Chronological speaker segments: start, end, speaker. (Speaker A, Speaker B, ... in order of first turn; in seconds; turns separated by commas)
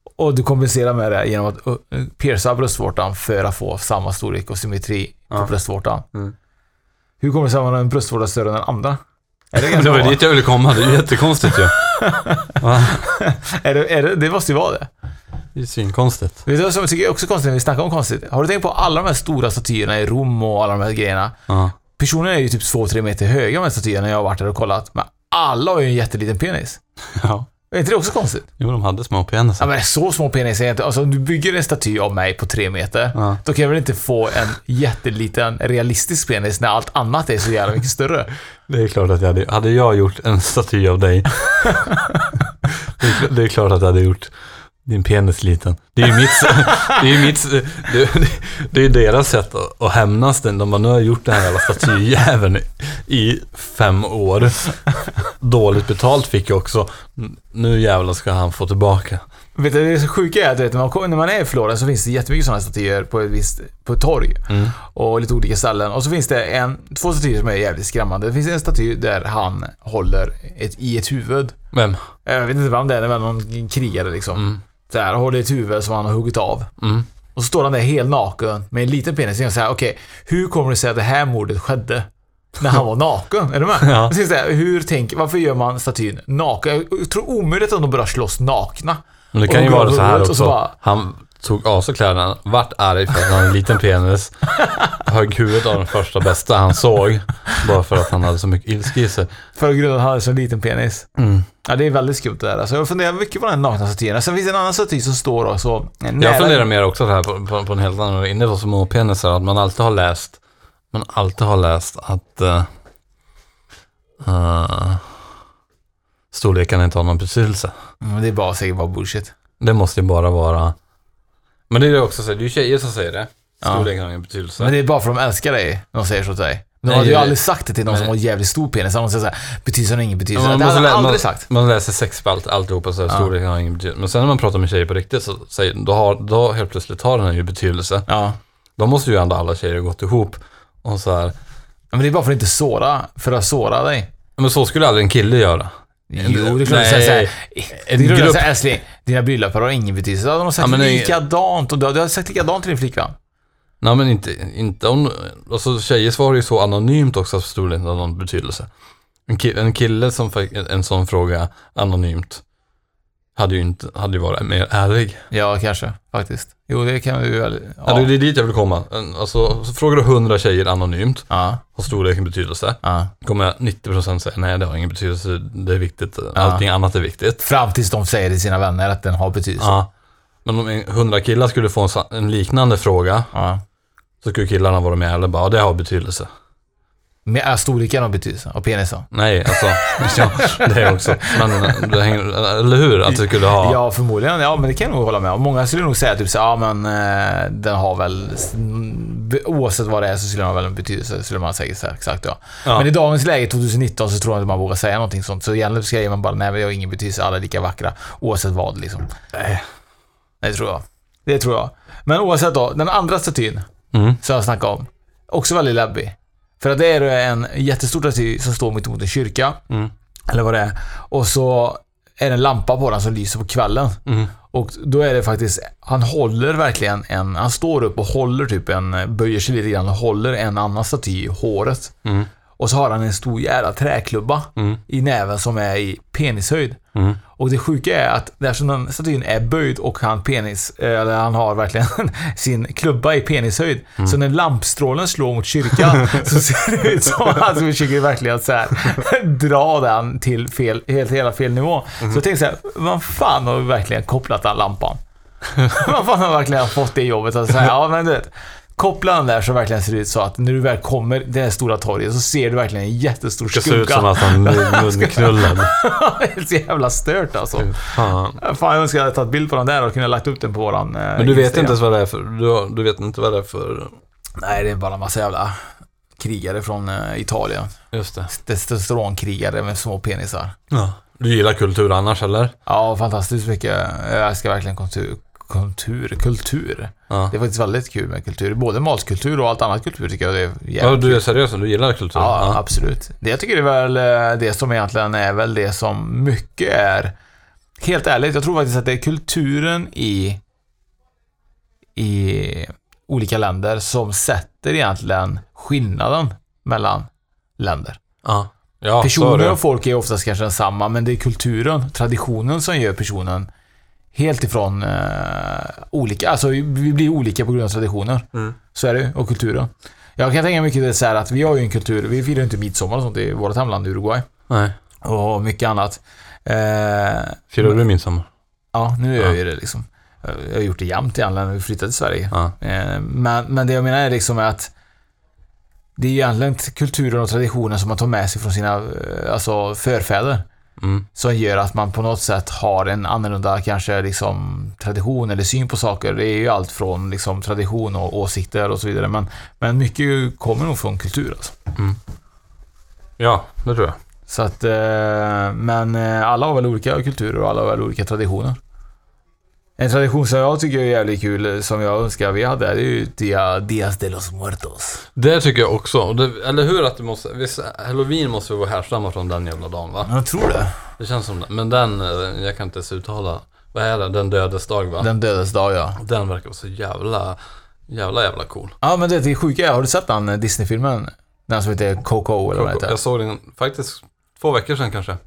Speaker A: 0.2-6.1, Speaker A: 7.2-9.0, Speaker A: 9.5-10.4, Speaker B: 9.6-11.8, Speaker A: 11.4-14.9, Speaker B: 12.6-13.0, Speaker B: 15.6-16.4, Speaker A: 16.5-21.4, Speaker B: 21.5-21.7, Speaker A: 22.0-26.8, Speaker B: 27.1-27.5, Speaker A: 27.7-28.5, Speaker B: 28.6-29.7, Speaker A: 29.6-38.3, Speaker B: 33.1-33.4, Speaker B: 38.7-41.9, Speaker B: 42.7-44.3, Speaker B: 44.8-54.8, Speaker B: 55.4-59.2, Speaker A: 59.6-71.6, Speaker B: 64.5-64.7, Speaker B: 71.7-72.1, Speaker A: 72.2-76.7, Speaker B: 74.4-74.6, Speaker B: 76.8-77.1, Speaker A: 77.3-90.7, Speaker B: 83.8-84.1, Speaker B: 89.3-99.3, Speaker A: 94.6-95.0, Speaker A: 99.5-101.1, Speaker B: 101.2-101.5, Speaker A: 101.6-106.7, Speaker B: 106.2-110.4, Speaker B: 110.9-112.7, Speaker B: 114.2-115.1, Speaker B: 116.3-117.7, Speaker A: 118.0-119.3, Speaker B: 119.6-120.8, Speaker B: 121.7-124.7, Speaker A: 123.6-123.9, Speaker A: 124.6-131.4, Speaker B: 126.9-128.1, Speaker B: 130.3-138.1, Speaker A: 138.1-138.4, Speaker B: 138.8-141.3, Speaker A: 141.9-144.1, Speaker B: 144.4-148.5, Speaker A: 146.1-153.2, Speaker B: 150.6-151.2, Speaker B: 153.8-158.7, Speaker B: 159.3-162.4, Speaker B: 163.3-165.3, Speaker A: 165.3-168.1, Speaker B: 167.8-177.5, Speaker A: 171.3-171.6, Speaker A: 172.8-173.1, Speaker A: 176.3-176.6, Speaker A: 177.4-179.8, Speaker B: 179.6-179.9, Speaker B: 180.4-183.3, Speaker A: 183.3-183.6, Speaker B: 184.2-186.3, Speaker A: 187.3-191.9, Speaker B: 189.1-193.8, Speaker A: 193.1-209.1, Speaker B: 209.3-209.7, Speaker A: 210.4-213.7, Speaker B: 213.9-214.2, Speaker A: 214.2-219.6, Speaker A: 220.3-224.0, Speaker B: 224.1-224.3, Speaker A: 224.5-231.9, Speaker A: 232.6-236.8, Speaker B: 236.9-237.2, Speaker A: 237.4-255.0, Speaker B: 245.7-246.3, Speaker A: 255.7-271.8, Speaker B: 263.5-265.7, Speaker B: 267.6-268.4, Speaker B: 271.2-273.9, Speaker A: 274.4-275.6, Speaker A: 276.2-277.8, Speaker B: 277.9-278.3, Speaker A: 278.3-280.6, Speaker B: 280.7-282.5, Speaker A: 282.6-291.2, Speaker B: 290.8-292.6, Speaker A: 292.1-297.1, Speaker A: 297.8-300.4, Speaker A: 302.0-308.0, Speaker B: 308.2-309.6, Speaker A: 309.0-313.5, Speaker A: 314.1-324.2, Speaker B: 324.5-324.8, Speaker A: 325.0-327.8, Speaker B: 327.5-328.3, Speaker A: 328.7-334.7, Speaker A: 336.0-340.4, Speaker B: 340.8-341.1, Speaker A: 341.1-351.6, Speaker B: 353.2-354.0, Speaker A: 354.3-358.6, Speaker A: 359.8-365.1, Speaker B: 365.1-370.1, Speaker A: 370.1-370.8, Speaker B: 371.0-375.1, Speaker A: 375.0-376.0, Speaker B: 376.0-378.8, Speaker A: 378.8-382.9, Speaker B: 382.5-385.2